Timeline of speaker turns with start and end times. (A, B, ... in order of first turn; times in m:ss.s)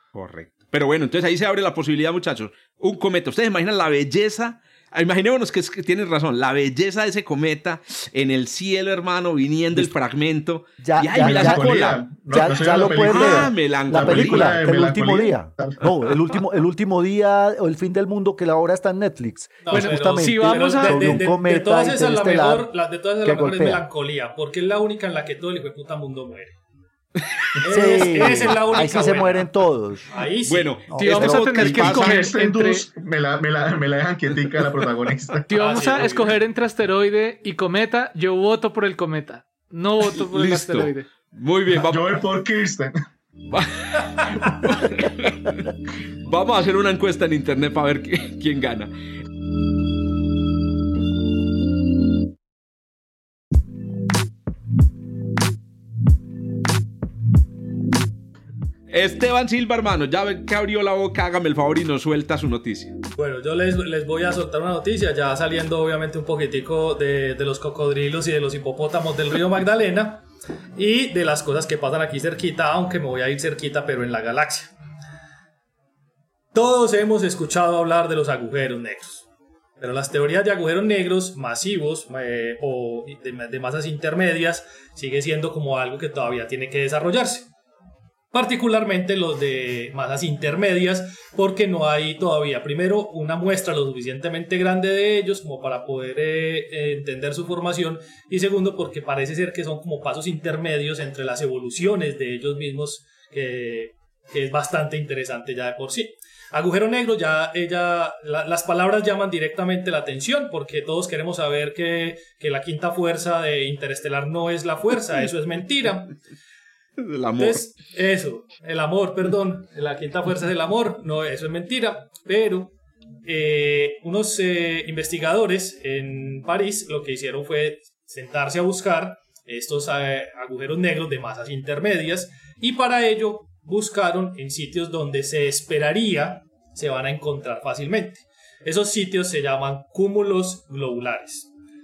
0:00.1-0:12.5 A
0:10.8-0:23.9 B
0:11.2-0:15.9 C
0:13.0-0:14.5 A
0:19.6-0:26.6 D
0:19.7-0:21.2 E
0:27.2-0:27.5 A
0:27.6-0:29.5 D
0:27.7-0:30.1 B
0:30.1-0:30.8 D
0:30.4-0:32.3 A
0:30.9-0:31.5 B
0:30.9-0:32.8 E
0:31.6-0:35.5 C
0:35.5-0:41.1 E
0:35.5-0:36.3 D
0:40.1-0:42.2 A
0:41.7-0:42.9 C
0:43.5-0:48.9 A
0:58.9-1:03.0 A
1:03.2-1:10.2 D
1:10.8-1:14.7 D
1:16.5-1:19.3 D
1:19.8-1:27.5 D
1:28.3-1:56.2 D
1:57.0-1:57.7 A
1:57.4-2:02.7 D
2:03.2-2:21.5 D